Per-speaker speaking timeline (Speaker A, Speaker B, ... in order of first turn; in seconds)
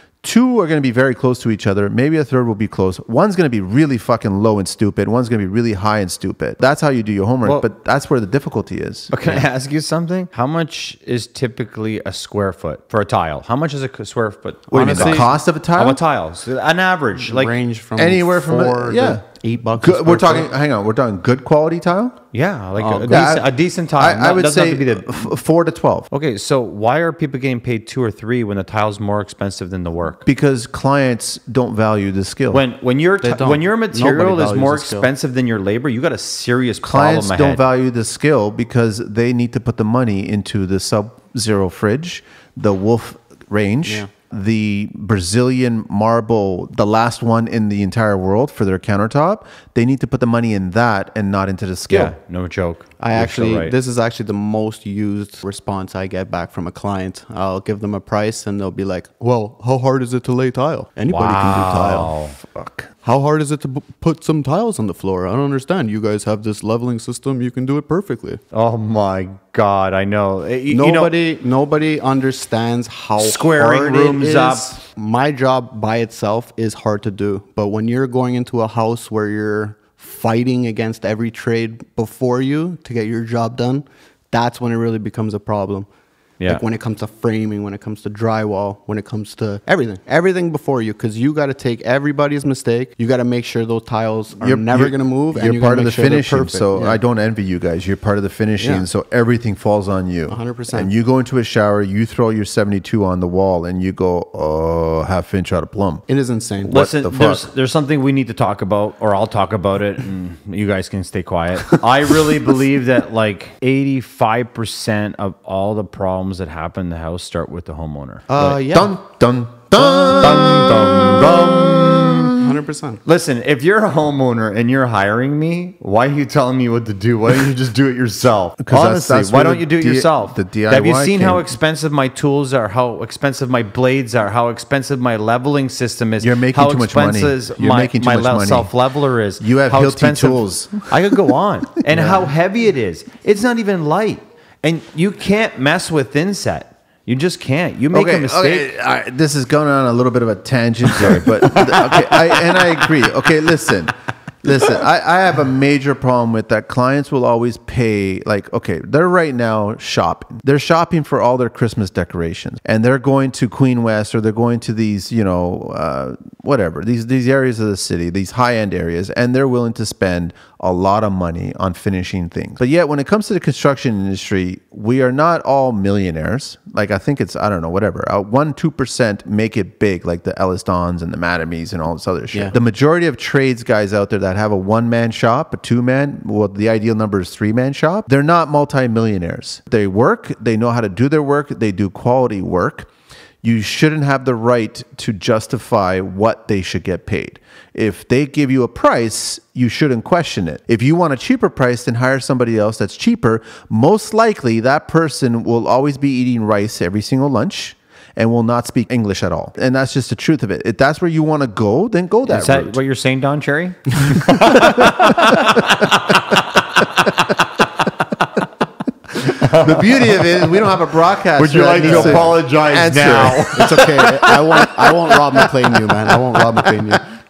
Speaker A: 0.2-9.1, 14.7-16.0, 17.9-19.2, 19.8-22.2, 23.1-26.1, 30.2-32.6, 36.8-52.1, 62.4-62.9, 94.4-106.0, 106.7-107.5, 118.7-122.3, 128.6-131.4, 136.2-138.7, 139.4-141.1, 141.8-142.3, 147.9-192.9, 193.4-212.8, 214.5-215.8, 219.1-223.9
Speaker B: 9.1-17.5, 22.3-25.3, 26.1-30.2, 32.5-37.6, 51.9-53.7, 61.1-62.3, 68.5-71.1, 73.2-74.8, 106.7-118.6, 119.7-122.4, 123.0-148.7, 151.0-152.3, 212.3-217.7, 219.2-220.3, 221.3-224.1
Speaker C: 14.7-15.3, 17.2-20.5, 22.8-23.3, 33.2-35.1, 43.8-44.1, 53.0-62.1, 63.0-68.4, 70.7-85.9, 86.4-97.0, 98.6-98.8, 100.3-100.9, 106.1-106.8, 118.3-118.9, 122.4-123.0, 221.8-222.4, 223.5-227.1